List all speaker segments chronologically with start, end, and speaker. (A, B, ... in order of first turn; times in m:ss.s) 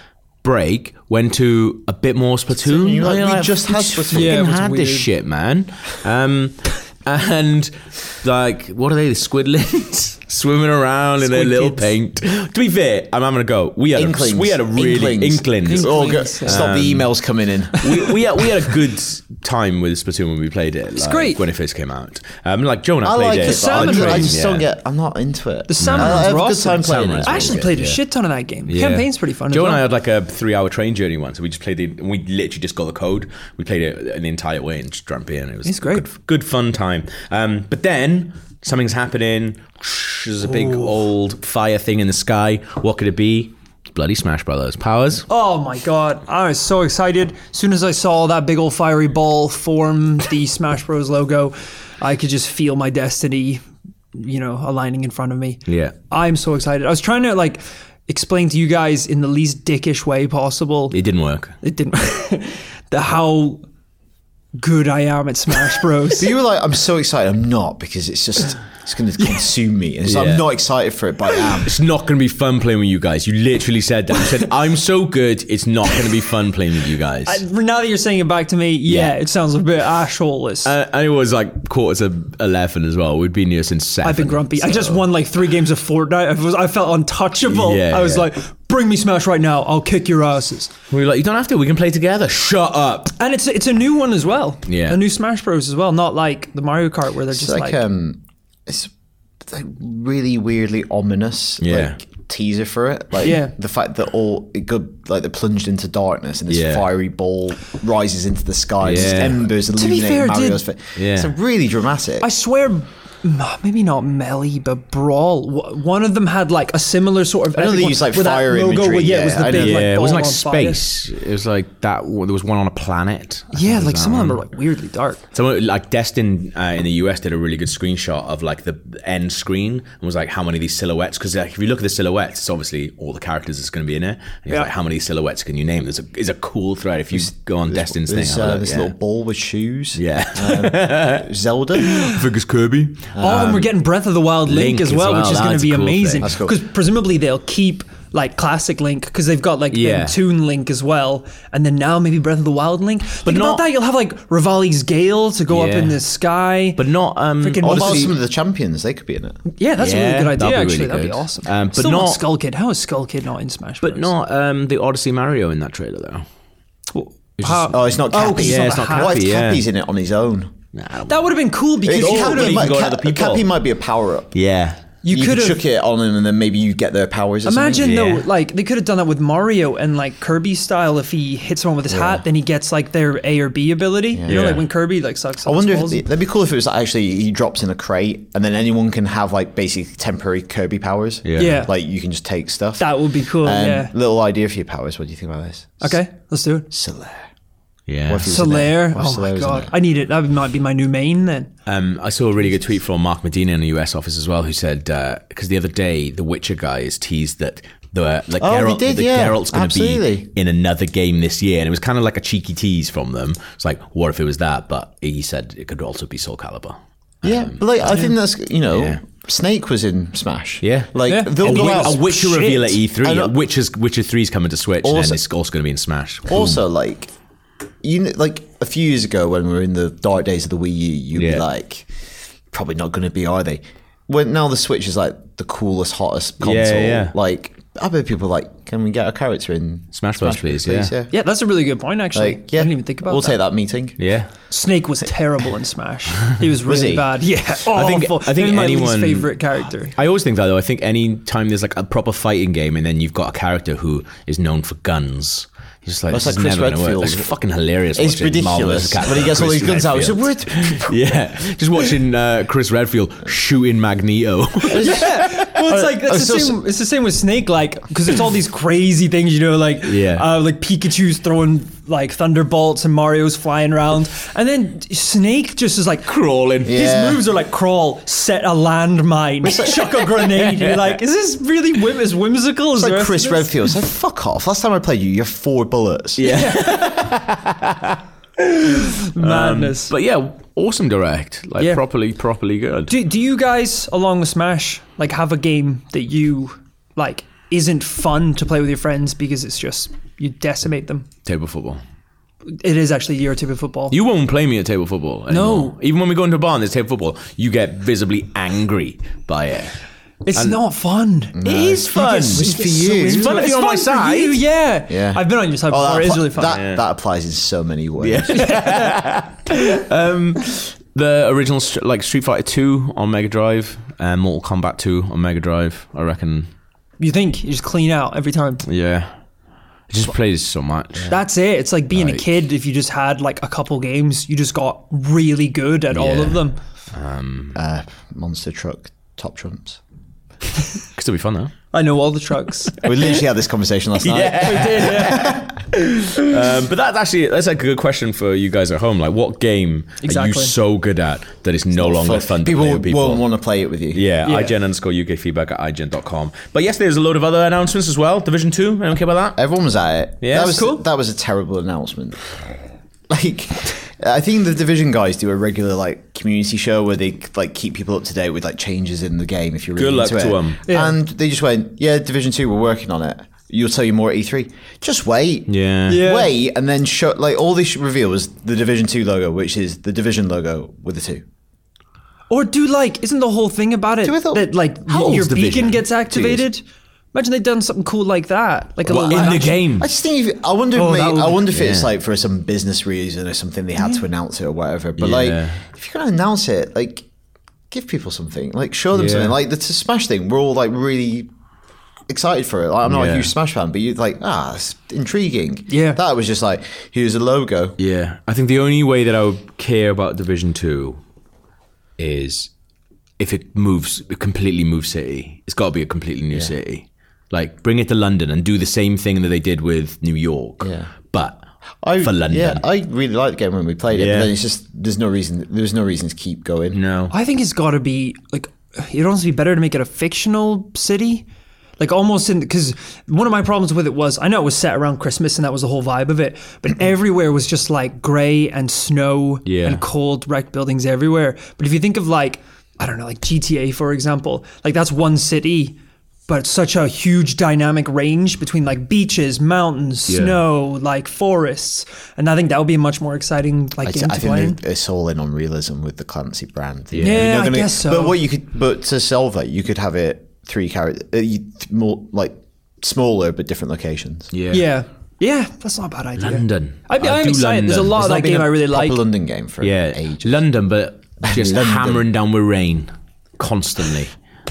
0:00.4-0:17.1 A
0:02.6-0:04.4 B
0:04.1-0:05.0 C
0:11.2-0:11.9 C
0:13.9-0:18.0 B
0:15.6-0:16.6 C
0:17.8-0:24.7 A
0:20.9-0:21.4 C
0:23.0-0:27.7 B
0:23.4-0:24.4 C
0:25.7-0:29.8 C
0:25.8-0:28.0 A
0:28.7-0:45.3 A
0:35.6-0:36.0 C
0:40.4-0:40.9 C
0:45.3-0:53.6 C
0:54.1-1:01.0 C
0:55.7-0:55.9 A
1:00.9-1:01.5 A
1:01.6-1:03.6 C
1:04.6-1:06.3 C
1:06.2-1:11.7 B
1:10.0-1:10.5 A
1:11.6-1:17.4 A
1:17.2-1:20.7 C
1:18.9-1:19.1 A
1:20.6-1:25.0 A
1:24.0-1:30.7 C
1:27.4-1:28.3 A
1:30.9-1:33.1 A
1:33.2-1:37.8 C
1:34.7-1:35.0 A
1:37.3-1:38.9 B
1:39.4-1:52.3 B
1:41.6-1:42.0 A
1:43.2-1:43.5 C
1:46.5-1:46.9 A
1:48.8-1:49.5 A
1:49.8-1:50.6 C
1:51.0-1:51.3 A
1:52.2-2:00.8 C
1:57.5-1:59.9 B
1:59.5-2:04.4 A
2:03.5-2:05.2 C
2:05.3-2:18.9 A
2:17.1-2:22.1 B
2:19.9-2:21.3 A
2:22.0-2:23.1 A
2:23.1-2:23.7 B
2:23.2-2:36.8 C
2:24.4-2:26.3 A
2:26.2-2:26.6 B
2:29.7-2:30.2 A
2:33.2-2:33.7 A
2:35.5-2:36.0 A
2:36.8-2:38.1 A
2:37.4-2:38.1 C
2:37.6-2:39.4 B
2:39.5-2:44.1 C
2:39.8-2:42.2 A
2:43.8-2:46.2 A
2:46.9-2:49.2 C
2:47.4-2:49.6 A
2:47.6-2:50.5 B
2:50.7-2:53.5 A
2:51.1-2:52.7 C
2:51.8-2:54.3 B
2:54.3-2:54.8 A
2:55.0-2:55.6 C
2:55.1-2:58.0 B
2:57.4-3:06.0 C
2:57.8-2:58.2 A
3:01.9-3:02.2 B
3:04.1-3:04.4 B
3:04.3-3:04.6 A
3:05.4-3:16.0 B
3:11.2-3:11.6 A
3:11.4-3:11.7 C
3:12.8-3:13.9 C
3:15.8-3:16.7 C
3:16.7-3:17.3 B
3:17.9-3:18.3 A
3:18.1-3:19.7 B
3:18.2-3:21.5 C
3:21.6-3:38.1 A
3:28.4-3:30.3 B
3:37.2-3:42.4 B
3:38.7-3:39.0 A
3:40.6-3:46.6 A
3:41.0-3:42.8 C
3:43.0-3:43.4 B
3:44.8-3:45.2 B
3:46.3-3:47.1 B
3:47.8-3:51.9 B
3:51.1-3:51.4 A
3:52.5-4:01.1 B
3:56.4-3:57.1 A
3:59.9-4:00.9 A
4:01.1-4:03.4 C
4:02.1-4:04.0 B
4:04.0-4:04.3 A
4:04.5-4:09.9 C
4:06.6-4:07.1 B
4:07.6-4:09.3 A
4:09.9-4:25.4 A
4:16.1-4:17.3 B
4:17.9-4:21.0 B
4:24.7-4:26.6 B
4:24.8-4:43.5 C
4:29.8-4:30.2 A
4:36.0-4:36.7 A
4:36.6-4:37.2 B
4:39.5-4:39.7 B
4:40.2-4:41.0 A
4:42.8-4:46.2 B
4:46.2-4:48.0 A
4:46.2-4:47.1 C
4:48.6-4:52.9 A
4:48.6-4:49.9 C
4:52.9-5:01.0 C
5:01.2-5:01.8 A
5:02.4-5:04.0 C
5:03.9-5:09.8 A
5:05.3-5:05.7 C
5:10.2-5:16.6 C
5:11.4-5:13.4 B
5:11.4-5:14.4 A
5:14.9-5:18.5 B
5:16.4-5:16.8 A
5:18.0-5:26.5 A
5:18.4-5:18.9 C
5:27.0-5:28.6 C
5:28.6-5:29.1 A
5:29.9-5:31.1 A
5:31.1-5:36.6 C
5:31.9-5:32.2 A
5:35.9-5:37.6 A
5:37.5-5:39.8 B
5:40.9-5:41.5 A
5:41.7-5:42.7 C
5:42.8-5:45.4 B
5:44.0-5:45.5 A
5:44.4-5:45.4 C
5:46.0-5:53.2 A
5:50.0-5:50.5 C
5:51.7-5:54.0 B
5:53.9-5:59.4 A
5:54.2-5:54.5 C
5:59.4-6:02.2 B
6:00.2-6:00.6 A
6:00.4-6:00.8 C
6:03.1-6:21.2 B
6:09.8-6:10.6 A
6:10.7-6:11.0 C
6:15.5-6:16.0 A
6:15.9-6:16.3 C
6:22.3-6:26.6 C
6:24.0-6:24.5 B
6:24.8-6:25.8 A
6:26.1-6:26.4 B
6:27.1-6:29.6 C
6:28.8-6:29.9 A
6:29.8-6:37.0 B
6:30.7-6:31.4 C
6:31.5-6:31.9 A
6:35.0-6:35.6 A
6:37.7-6:41.3 B
6:38.9-6:39.4 A
6:42.1-6:47.8 B
6:42.8-6:43.3 A
6:45.7-6:46.0 C
6:47.8-6:51.0 A
6:52.0-6:52.5 A
6:53.2-7:01.4 A
7:00.6-7:00.9 B
7:01.8-7:06.8 B
7:02.0-7:02.6 A
7:03.9-7:04.3 A
7:06.7-7:07.1 A
7:07.1-7:11.2 C
7:11.8-7:25.8 C
7:19.4-7:19.8 A
7:26.3-7:34.6 C
7:30.1-7:30.4 A
7:33.8-7:44.3 B
7:36.9-7:37.2 A
7:37.0-7:38.2 C
7:44.3-7:44.7 A
7:44.5-7:49.0 C
7:46.2-7:48.3 A
7:48.0-7:50.4 B
7:49.6-7:54.1 A
7:51.2-7:52.0 B